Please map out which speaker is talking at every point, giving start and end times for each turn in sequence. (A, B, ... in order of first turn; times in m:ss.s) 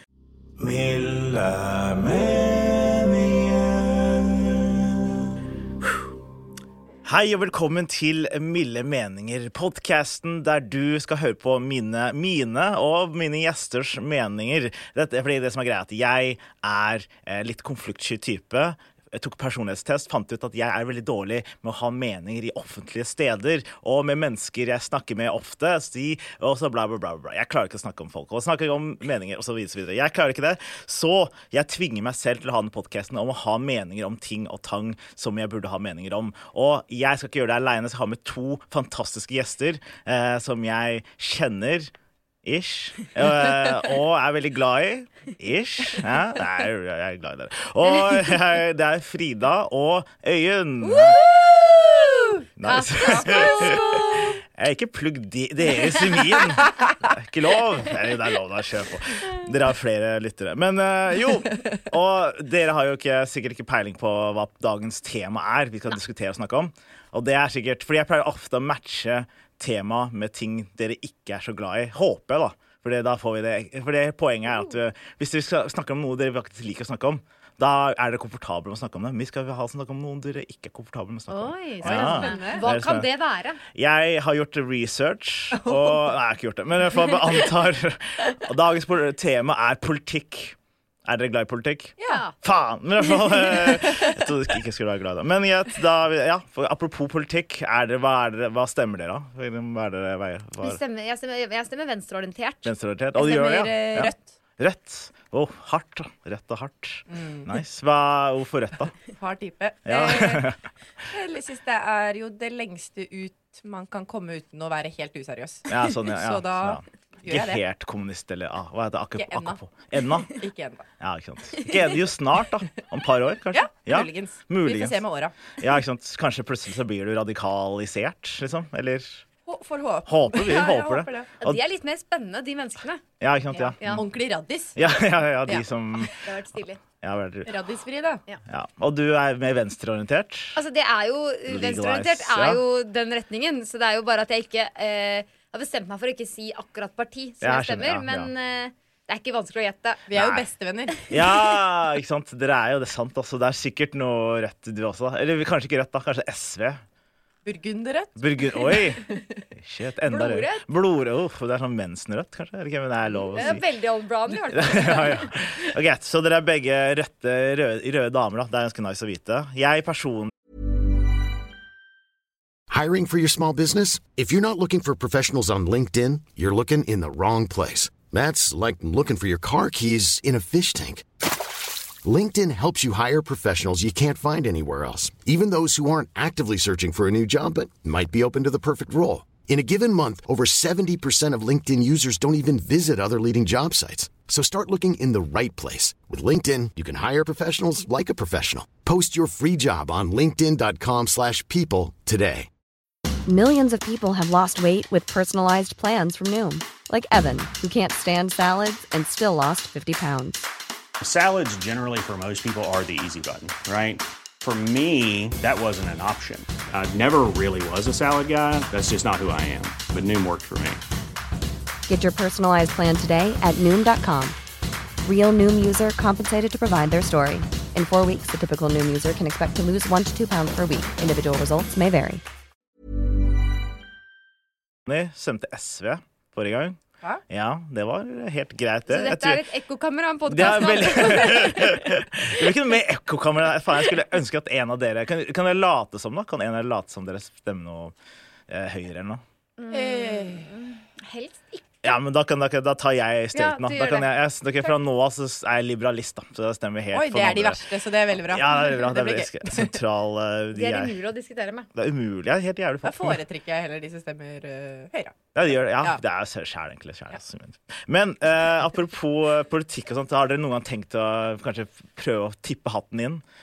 0:00.6-0:04.7 A
0:07.0-0:41.9 A
0:42.4-0:51.2 A
0:50.9-0:54.4 B
0:52.6-0:53.8 A
0:52.7-0:54.2 C
0:54.6-1:23.1 A
1:21.3-1:23.6 C
1:21.8-1:22.6 B
1:23.7-1:40.8 A
1:25.5-1:26.1 B
1:32.0-1:32.2 B
1:32.1-1:32.3 C
1:40.6-1:42.7 C
1:42.6-1:48.9 A
1:43.2-1:44.4 B
1:47.1-1:47.5 B
1:49.2-1:50.5 B
1:49.9-1:50.6 A
1:51.1-1:57.6 B
1:55.7-2:00.4 A
1:59.2-1:59.6 B
2:00.3-2:00.9 B
2:01.0-2:05.0 A
2:03.5-2:05.4 B
2:05.5-2:09.2 A
2:09.5-2:11.3 B
2:10.1-2:11.6 A
2:11.4-2:14.0 C
2:13.2-2:14.1 A
2:13.9-2:15.6 B
2:14.8-2:16.2 A
2:16.2-2:16.8 C
2:17.0-2:17.5 A
2:17.5-2:18.2 B
2:18.5-2:20.6 A
2:20.6-2:30.1 C
2:21.5-2:22.6 A
2:27.4-2:28.3 A
2:30.1-2:31.0 B
2:30.1-2:30.5 A
2:31.1-2:36.8 A
2:37.4-2:39.1 B
2:38.2-2:43.6 A
2:40.1-2:40.6 C
2:43.3-2:45.3 C
2:44.5-2:50.3 A
2:52.7-3:01.1 D
3:02.0-3:22.5 D
3:23.3-3:30.5 E
3:31.0-3:40.8 F
3:41.9-3:44.4 E
3:45.0-3:52.2 E
3:54.9-3:56.8 A
3:57.3-3:59.4 A
3:58.9-4:01.9 C
4:00.3-4:07.9 A
4:08.5-4:09.2 A
4:09.6-4:12.0 C
4:09.7-4:10.5 B
4:11.8-4:17.6 A
4:13.3-4:14.1 C
4:16.9-4:19.8 B
4:18.2-4:20.9 A
4:20.5-4:21.7 C
4:21.8-4:23.2 A
4:22.8-4:26.0 B
4:25.4-4:33.2 A